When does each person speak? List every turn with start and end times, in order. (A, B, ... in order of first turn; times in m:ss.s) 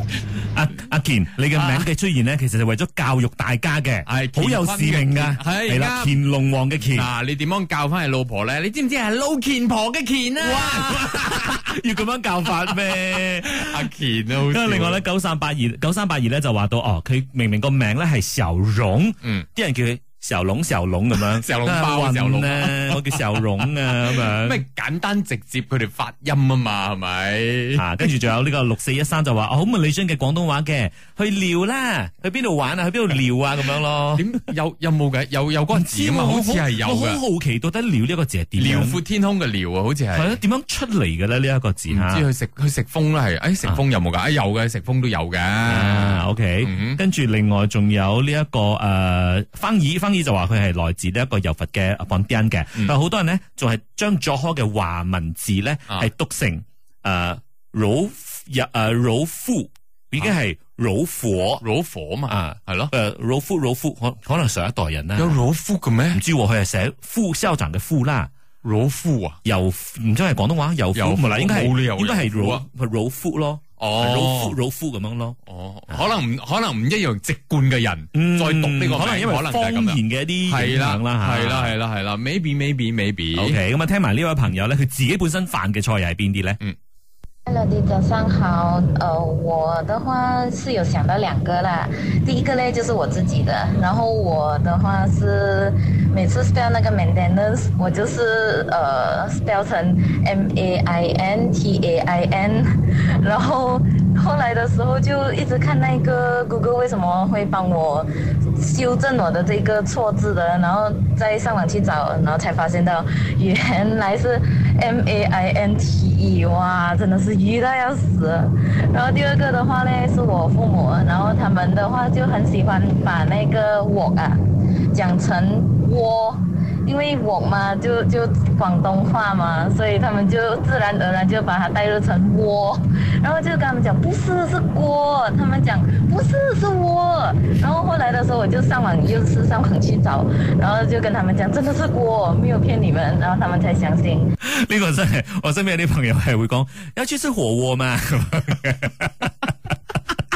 0:00.4-0:07.1 A
0:01.6-0:01.9 B
0:04.1-0:06.2 B
0:06.9-0:11.8 B
0:10.4-0:13.9 A
0:12.7-0:15.0 B
0:14.5-0:24.6 A
0:21.1-0:28.0 B
0:27.8-0:34.3 A
0:34.2-0:37.2 B
0:35.7-0:39.0 A
0:38.6-0:40.4 B
0:40.1-0:42.2 A
0:41.9-0:47.0 B
0:45.7-1:01.6 A
1:01.6-1:02.9 B
1:02.3-1:05.4 A
1:05.2-1:06.2 B
1:06.1-1:08.3 A
1:08.6-1:09.4 B
1:09.4-1:15.4 A
1:10.9-1:12.6 B
1:13.8-1:14.6 B
1:15.5-1:23.6 B
1:18.1-1:21.7 A
1:23.4-1:26.6 A
1:27.5-1:42.6 C
1:43.2-1:48.0 C
1:48.6-2:04.3 C
2:05.0-2:24.3 C
2:24.4-2:29.7 A